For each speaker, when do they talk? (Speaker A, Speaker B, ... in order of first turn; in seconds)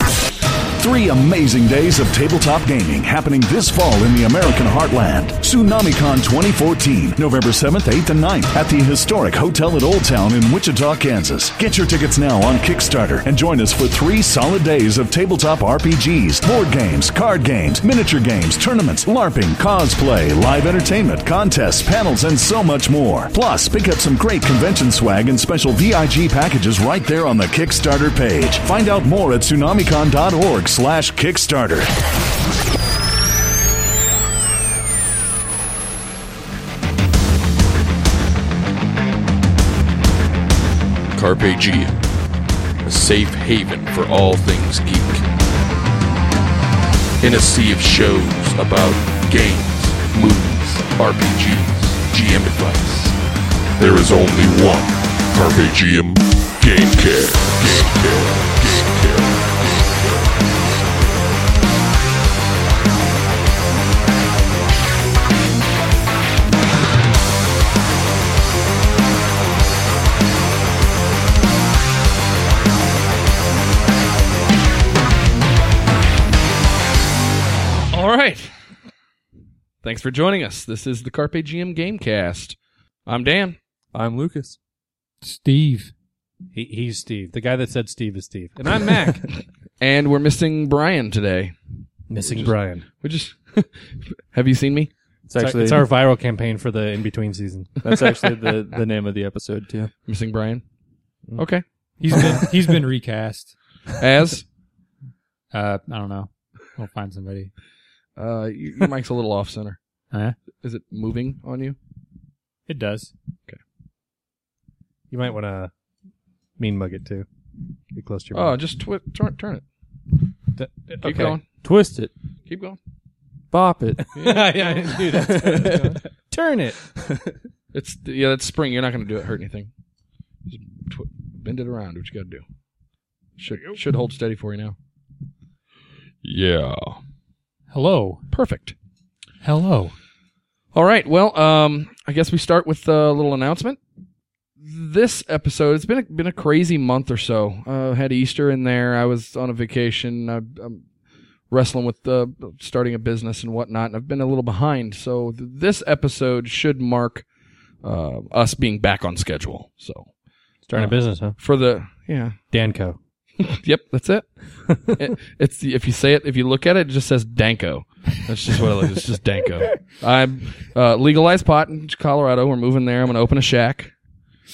Speaker A: 0.8-31.9
Speaker B: 41.2-41.9, 42.9-45.2, 47.2-53.2, 53.8-60.7
Speaker C: 77.9-78.5, 79.8-83.6, 89.8-91.5, 92.2-94.9, 100.1-100.6, 101.4-101.6, 104.0-104.4, 108.2-109.8, 110.6-111.8, 118.3-119.6, 121.0-121.4, 122.5-122.8, 127.7-129.7, 130.5-132.4, 133.4-134.8, 136.2-137.0, 138.3-138.7, 140.7-143.8, 144.6-150.8, 151.5-157.2, 157.8-160.1, 160.7-162.3, 163.5-173.9
Speaker D: 83.9-84.6, 95.3-95.9, 97.8-99.9, 121.6-122.1, 123.5-124.4, 125.1-125.9
Speaker E: 85.2-85.9, 102.0-103.5, 105.5-107.5, 112.7-113.1, 137.7-138.2, 139.4-139.9
Speaker F: 86.5-89.3, 92.1-92.8, 95.4-98.0, 102.1-102.5, 115.1-115.7, 116.6-117.2, 117.9-118.5, 120.6-121.4, 124.1-127.3, 160.7-161.4, 162.5-163.0